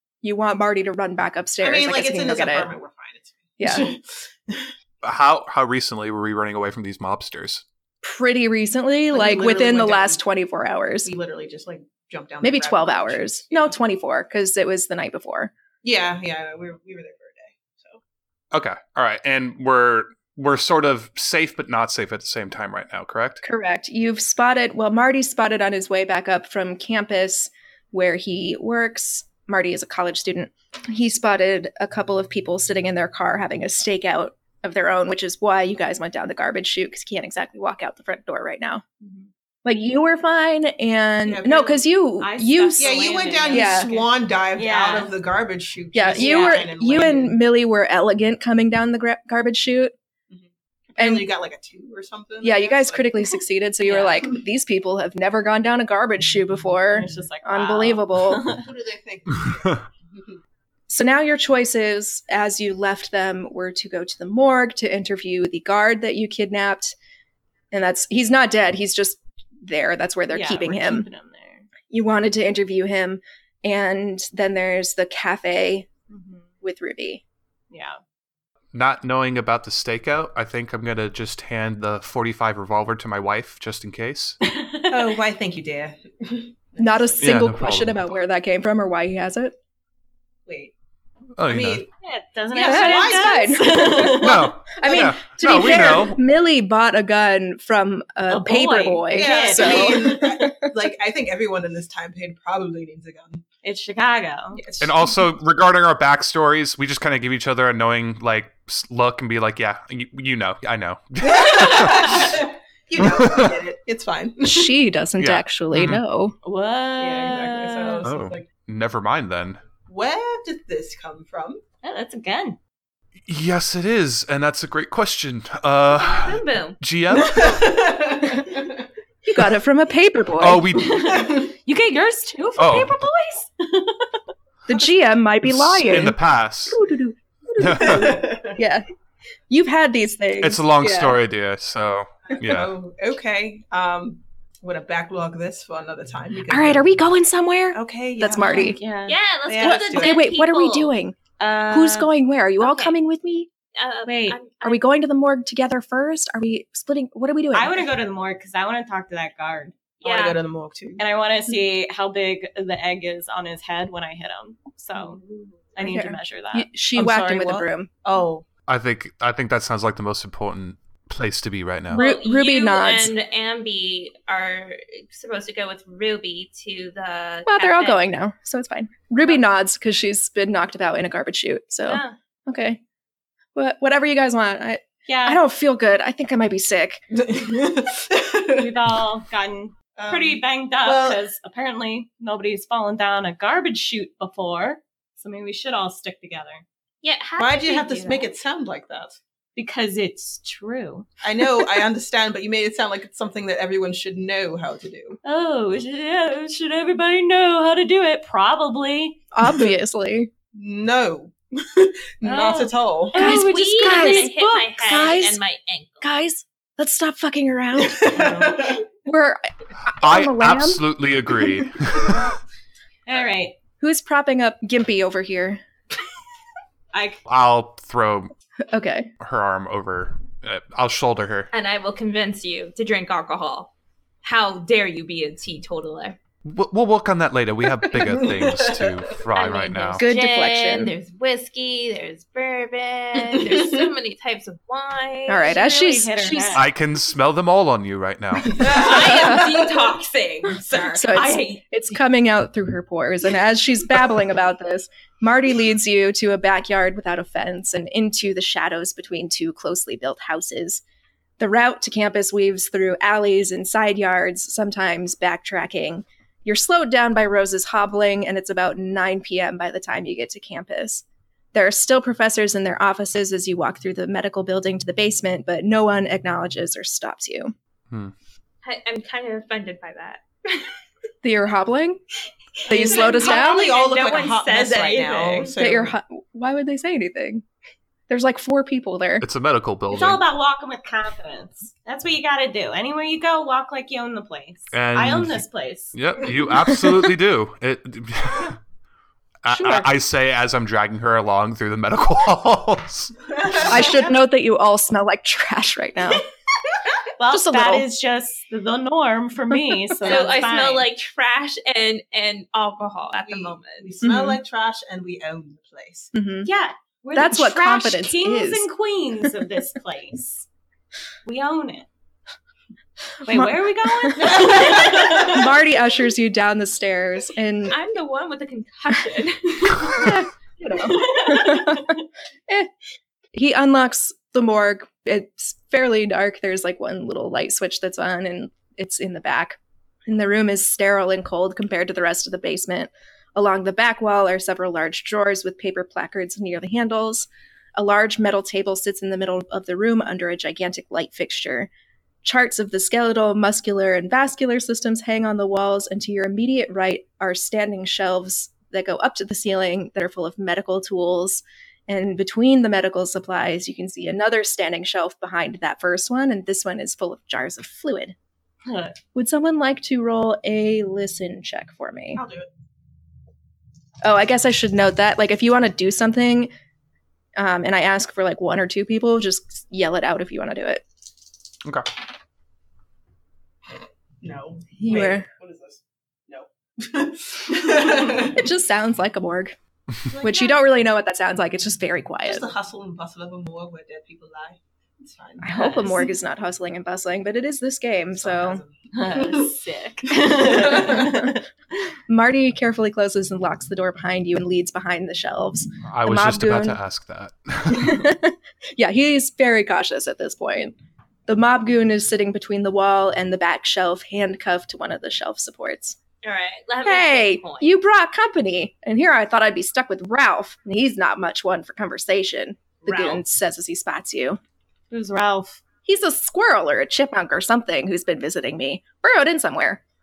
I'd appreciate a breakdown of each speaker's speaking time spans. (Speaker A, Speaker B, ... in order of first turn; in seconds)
Speaker A: 0.2-2.7, 3.6-3.9, 8.0-11.1, 12.4-15.5, 23.4-38.8, 39.6-42.9, 43.5-43.9, 45.9-49.9, 51.0-51.3, 52.4-58.5, 60.9-67.0, 67.7-71.1, 71.9-75.9, 76.6-77.2, 86.8-89.5, 92.6-100.7, 114.4-116.4, 129.2-130.8, 134.7-138.9, 139.5-140.6, 146.5-148.8, 149.6-151.2, 151.7-153.5, 154.6-157.8, 165.8-167.9, 171.9-173.1, 177.5-182.8, 183.6-187.0, 209.3-210.3, 213.2-214.3, 214.8-215.4, 216.0-218.3, 219.1-220.8, 223.8-225.6, 228.7-229.1, 240.0-240.9, 245.3-246.6, 248.9-249.6, 250.7-260.8, 261.4-277.5, 281.2-282.0, 282.7-283.7, 285.6-287.4, 288.1-289.3, 303.7-306.2, 307.3-307.9, 314.0-314.4, 316.1-316.5, 317.1-318.7, 323.2-327.8, 329.7-331.9, 333.3-351.7, 352.2-368.1, 369.1-372.2, 374.0-376.5, 377.4-380.8, 384.8-385.3, 388.3-389.6, 390.2-392.5, 395.4-398.6, 402.1-406.8, 407.7-410.7, 411.3-416.0, 416.8-424.4, 425.9-429.8
Speaker B: 1.6-4.7, 9.1-10.2, 11.0-13.8, 15.8-18.0, 41.3-41.8, 42.8-47.4, 50.3-53.4, 58.5-60.4, 84.9-87.3, 90.5-90.7, 91.5-91.9, 92.5-93.5, 99.1-103.5, 104.5-105.2, 111.2-114.7, 117.0-118.5, 119.9-121.6, 127.2-128.9, 131.0-131.5, 137.7-138.6, 140.8-141.2, 142.3-146.9, 147.8-148.9, 149.5-150.2, 160.0-161.0, 166.9-168.4, 187.1-188.7, 190.0-191.2, 197.4-199.2, 201.2-205.2, 209.4-209.7, 210.5-213.2, 217.8-218.8, 237.9-239.2, 243.2-243.9, 248.5-249.1, 282.7-285.9, 303.3-304.2, 313.2-316.1, 324.2-325.5, 372.2-372.5, 384.2-388.5, 390.1-390.6, 392.3-396.0, 398.1-401.1
Speaker C: 5.0-7.6, 18.5-23.4, 78.7-84.3, 87.2-87.9, 91.4-91.8, 94.2-96.2, 104.8-112.3, 115.2-115.9, 118.7-119.6, 123.3-127.7, 130.4-130.9, 132.6-132.9, 135.5-136.8, 140.4-142.7, 168.7-170.1, 227.3-227.8, 229.2-231.2, 237.9-240.0, 289.2-290.2, 294.7-295.3, 295.9-298.5, 299.5-303.1, 405.9-407.0, 407.7-408.1
Speaker D: 20.3-20.7, 87.5-87.8, 94.9-95.5, 111.3-112.1, 115.8-116.0, 118.0-118.4, 123.3-126.2, 130.6-130.8, 132.6-132.9, 135.8-136.5, 140.6-142.7, 168.7-171.9, 220.0-222.2, 227.3-228.3, 229.2-231.5, 236.5-240.0, 246.6-248.6, 289.6-290.0, 295.0-295.4, 296.0-297.8, 299.5-299.8, 406.0-407.8
Speaker E: 39.0-39.3, 42.2-45.1, 46.1-46.7, 53.9-54.2, 56.9-58.7, 70.3-71.7, 76.1-76.5, 77.7-78.0, 84.4-85.2, 92.0-94.6, 98.3-100.1, 103.6-104.6, 116.4-118.2, 121.8-122.6, 130.8-134.2, 148.4-149.2, 151.4-152.1, 154.1-154.4, 157.5-159.8, 161.0-165.2, 165.8-166.7, 181.9-182.2, 185.1-185.4, 188.6-196.6, 199.6-201.8, 205.2-209.2, 212.2-214.9, 218.1-218.6, 223.1-223.6, 226.9-227.2, 245.4-246.7, 250.7-251.6, 289.9-296.0, 307.2-310.9, 316.4-320.5, 321.2-321.9, 323.3-325.4, 330.8-331.8, 368.7-369.0, 395.6-396.0, 398.9-401.4, 424.9-425.6
Speaker F: 126.0-126.8, 149.1-150.9, 152.6-152.9, 153.8-154.8, 160.0-160.4, 165.0-165.5, 172.0-178.1, 197.0-198.3, 213.2-216.2, 231.5-236.2, 239.3-245.6, 248.6-251.3, 278.6-280.2, 282.7-285.5, 310.0-314.0, 327.7-330.2, 416.2-417.8, 422.9-423.2